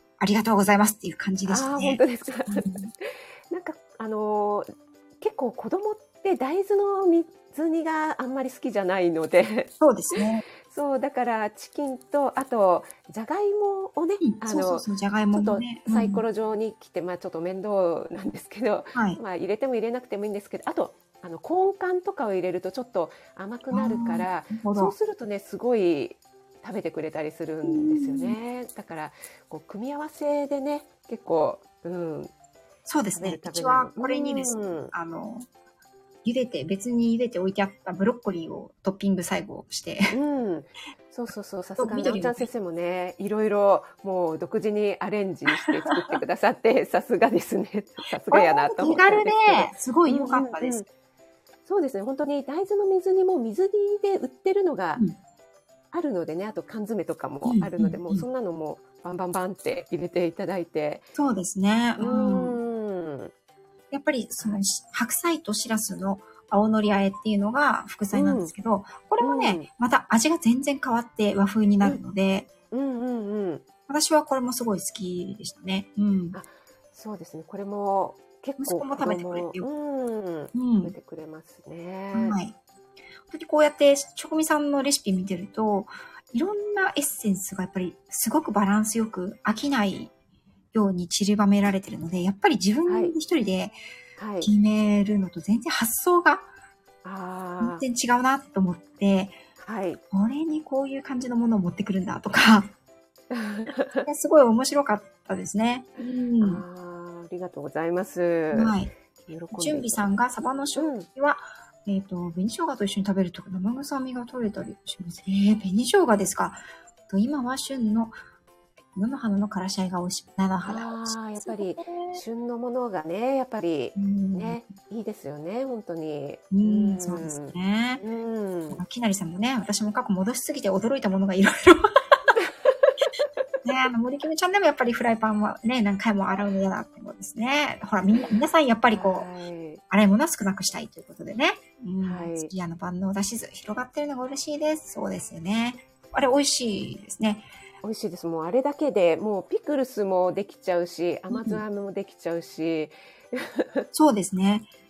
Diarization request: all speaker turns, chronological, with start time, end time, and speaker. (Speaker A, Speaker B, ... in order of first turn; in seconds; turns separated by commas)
Speaker A: 0.2-2.9, Speaker B: 1.5-32.3, Speaker A: 9.8-10.4, Speaker A: 14.2-16.2, Speaker A: 18.9-19.2, Speaker A: 23.7-24.9, Speaker A: 27.6-28.4, Speaker A: 32.9-35.5, Speaker B: 33.1-34.9, Speaker A: 36.2-40.1, Speaker B: 40.1-50.9, Speaker A: 41.8-42.5, Speaker A: 45.5-46.1, Speaker A: 48.3-50.8, Speaker B: 51.6-55.0, Speaker B: 55.9-61.0, Speaker A: 57.4-58.2, Speaker A: 61.1-62.6, Speaker B: 62.0-63.3, Speaker A: 63.9-72.5, Speaker B: 68.1-68.5, Speaker B: 69.2-69.7, Speaker B: 72.7-73.6, Speaker A: 73.9-76.4, Speaker B: 76.3-82.4, Speaker A: 78.6-79.7, Speaker A: 80.5-80.9, Speaker A: 82.1-82.5, Speaker A: 83.3-90.1, Speaker A: 90.7-93.7, Speaker B: 92.8-93.1, Speaker B: 94.2-94.5, Speaker A: 94.4-96.5, Speaker B: 97.0-97.8, Speaker A: 97.6-99.4, Speaker B: 99.6-100.0, Speaker A: 100.1-102.7, Speaker B: 103.3-104.1, Speaker A: 104.0-106.6, Speaker B: 106.4-110.1, Speaker A: 108.5-108.9, Speaker A: 109.5-118.1, Speaker B: 110.8-111.1, Speaker A: 118.9-122.2, Speaker B: 120.6-128.8, Speaker A: 124.0-124.7, Speaker A: 126.5-128.0, Speaker A: 128.7-131.9, Speaker B: 132.3-133.0, Speaker A: 133.6-139.3, Speaker B: 138.9-139.8, Speaker A: 139.9-147.4, Speaker B: 142.0-142.5, Speaker B: 147.8-153.8, Speaker A: 151.3-151.6, Speaker A: 153.9-154.7